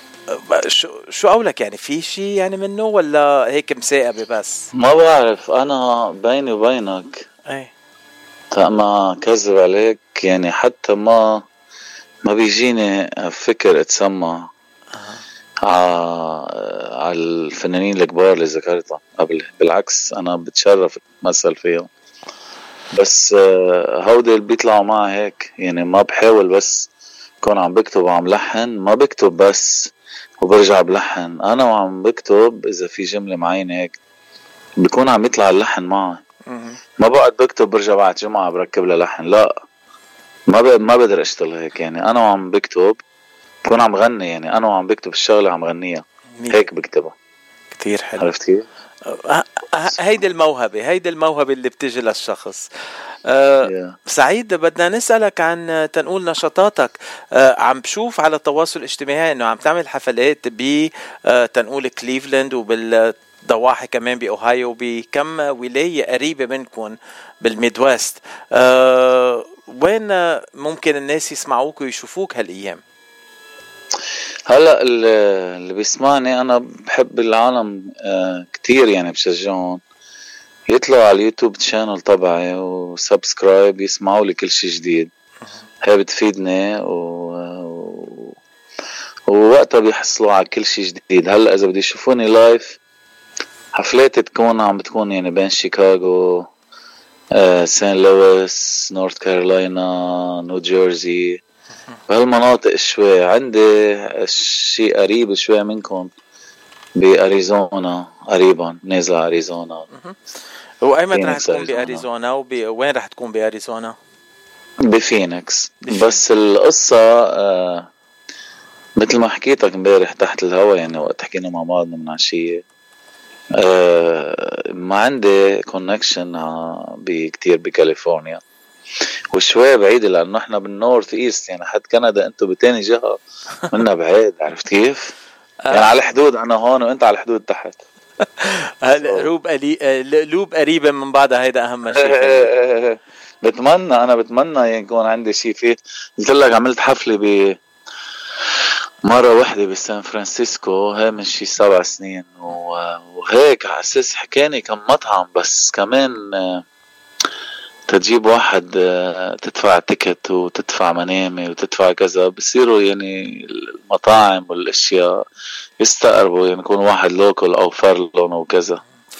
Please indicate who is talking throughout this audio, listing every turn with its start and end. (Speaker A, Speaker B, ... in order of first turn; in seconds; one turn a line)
Speaker A: 0.3-4.7
Speaker B: 4.7-7.3
Speaker B: 8.5-11.4
Speaker B: 12.2-14.5
Speaker A: 14.9-15.2
Speaker B: 15.6-21.9
Speaker B: 22.9-26.9
Speaker B: 27.4-34.0
Speaker B: 34.8-36.2
Speaker A: 36.5-36.8
Speaker B: 37.0-39.5
Speaker B: 40.5-43.0
Speaker B: 43.6-47.1
Speaker A: 46.4-46.7
Speaker A: 47.7-48.3
Speaker B: 48.2-48.7
Speaker A: 49.1-52.7
Speaker A: 53.3-72.8
Speaker B: 53.6-54.0
Speaker B: 74.5-79.8
Speaker B: 80.7-85.1
Speaker B: 85.8-88.4
Speaker B: 89.3-92.8
Speaker B: 93.8-96.5
Speaker B: 97.3-101.4
Speaker B: 102.1-106.1
Speaker B: 107.0-109.9
Speaker A: 110.8-114.0
Speaker B: 111.1-112.0
Speaker B: 114.9-117.9
Speaker A: 115.9-116.2
Speaker B: 119.0-122.6
Speaker B: 123.5-128.4
Speaker B: 129.3-135.1
Speaker A: 135.7-135.9
Speaker B: 135.7-137.8
Speaker A: 138.4-142.5
Speaker B: 139.0-139.3
Speaker B: 141.9-147.6
Speaker B: 148.6-156.7
Speaker B: 157.9-165.2
Speaker B: 165.8-168.8